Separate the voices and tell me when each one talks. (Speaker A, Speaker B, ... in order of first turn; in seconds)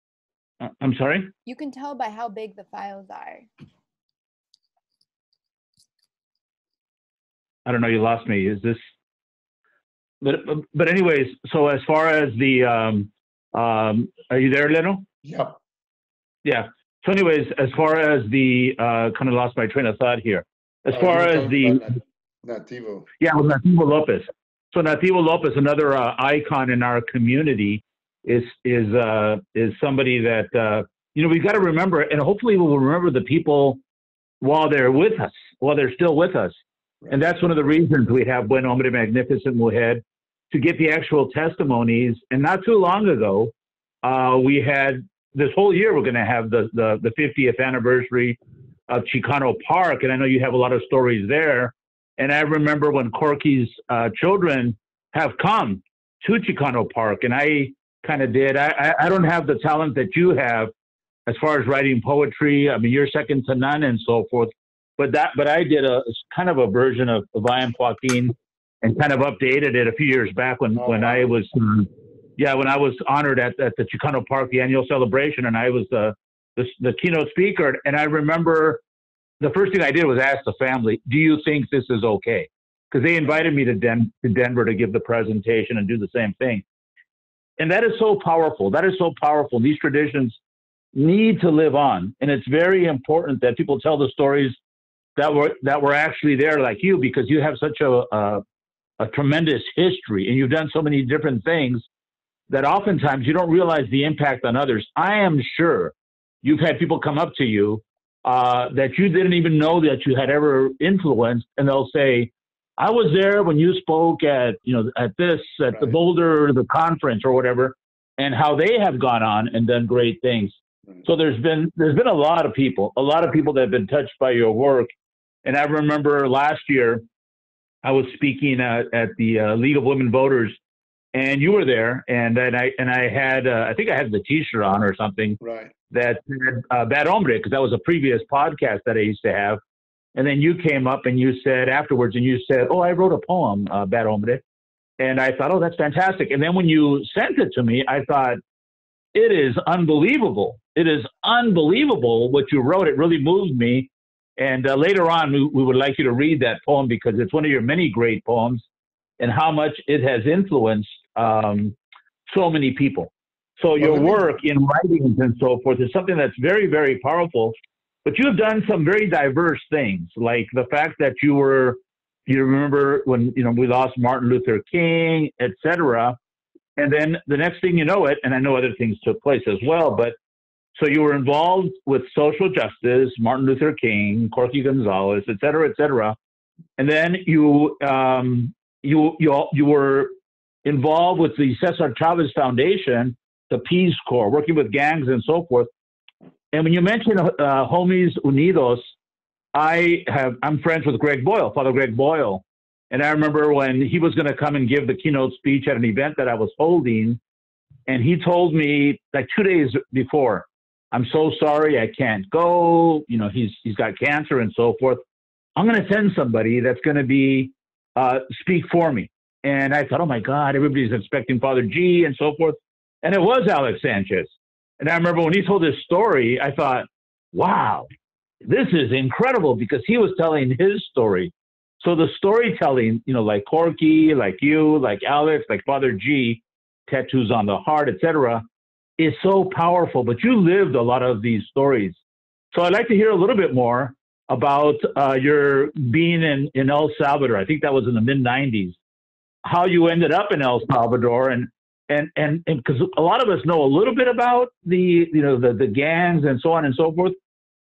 Speaker A: 0.6-1.3, 7.7-8.8, 10.2-15.1, 16.4-21.8, 23.2-33.8, 34.4-36.6, 37.1-48.4, 48.9-60.7, 61.3-78.8, 79.4-86.7, 87.6-90.4, 90.9-94.6, 95.2-98.4, 99.0-101.9, 102.5-124.9, 125.5-127.0, 127.8-130.6, 131.1-135.4, 135.9-139.6, 140.2-144.4, 145.0-148.4, 149.1-158.7, 159.2-161.8, 162.3-176.2, 176.8-180.2, 180.8-186.2, 186.8-190.1, 190.7-195.7, 196.5-198.9, 199.6-207.2, 207.9-215.0, 215.6-227.9, 228.4-238.4, 239.0-242.0, 242.5-248.8, 249.4-257.2
Speaker B: 1.4-3.5
Speaker C: 15.2-15.6, 20.9-23.1, 70.8-71.3, 115.7-116.0, 135.4-135.7, 163.8-164.3